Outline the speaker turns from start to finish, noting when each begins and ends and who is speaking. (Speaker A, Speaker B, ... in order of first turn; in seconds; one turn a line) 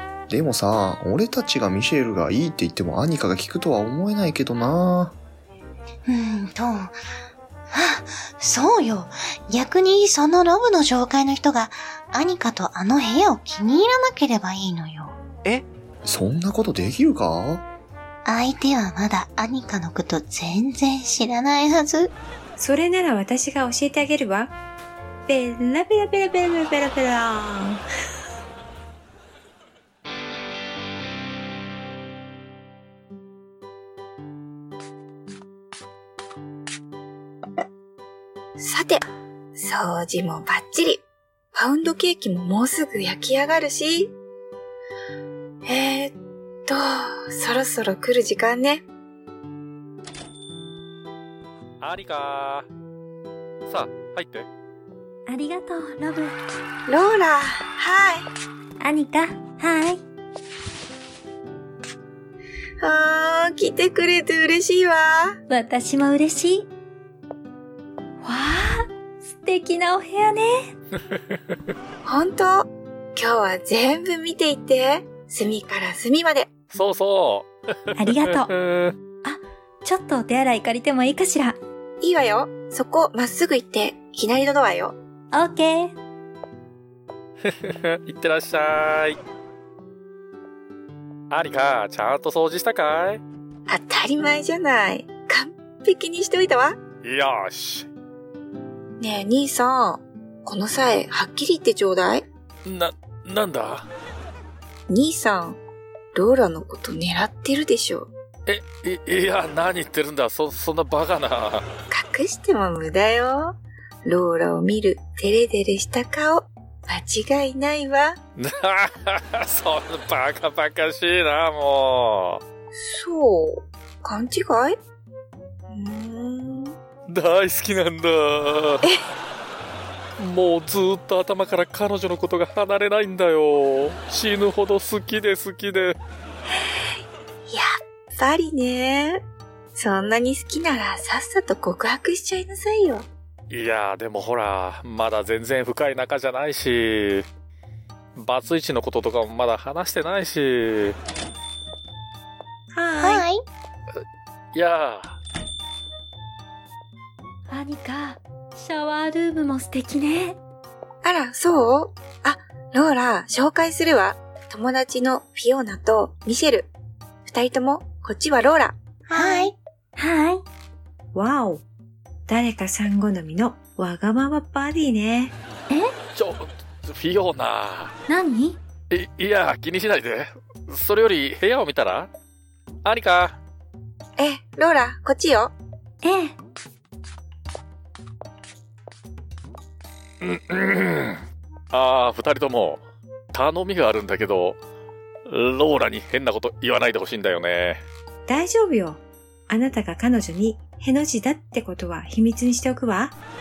Speaker A: 0.3-5.2
Speaker B: 6.0-7.0
Speaker B: 7.7-15.2
Speaker A: 16.0-17.6
Speaker B: 18.2-22.1
Speaker C: 22.6-24.5
Speaker C: 25.2-27.8
Speaker D: 38.6-44.1
Speaker D: 45.6-46.1
Speaker D: 46.6-48.8
Speaker E: 51.8-52.7
Speaker E: 53.7-54.5
Speaker F: 55.3-56.4
Speaker D: 56.9-58.3
Speaker F: 58.8-60.0
Speaker D: 62.8-65.4
Speaker F: 65.5-66.7
Speaker F: 68.2-70.7
Speaker E: 71.1-71.4
Speaker D: 72.0-76.5
Speaker E: 76.7-78.9
Speaker F: 78.0-78.5
Speaker F: 79.2-81.6
Speaker D: 82.0-85.0
Speaker F: 85.3-85.9
Speaker E: 87.4-89.2
Speaker E: 91.3-93.2
Speaker D: 93.7-96.8
Speaker E: 97.0-97.9
Speaker D: 99.0-102.2
Speaker E: 102.6-103.9
Speaker D: 104.9-105.6
Speaker D: 106.1-108.1
Speaker E: 108.5-111.7
Speaker D: 111.9-118.2
Speaker E: 118.3-122.4
Speaker D: 122.8-124.8
Speaker D: 125.7-126.8
Speaker E: 127.1-128.8
Speaker E: 130.2-135.9
Speaker D: 137.5-139.2
Speaker D: 139.8-143.1
Speaker E: 143.5-147.3
Speaker E: 148.2-151.0
Speaker C: 152.7-153.2
Speaker B: 153.0-153.4
Speaker E: 154.5-155.2
Speaker F: 157.5-160.4
Speaker D: 161.0-166.7
Speaker D: 167.2-168.8
Speaker B: 169.1-169.5
Speaker F: 169.1-170.4
Speaker C: 171.1-171.6
Speaker C: 172.3-175.3
Speaker E: 176.1-177.9
Speaker F: 178.1-178.6
Speaker E: 178.9-182.1
Speaker E: 182.8-183.4
Speaker D: 184.2-185.5
Speaker F: 186.0-186.3
Speaker E: 190.2-194.6
Speaker E: 195.3-197.8
Speaker C: 198.3-203.1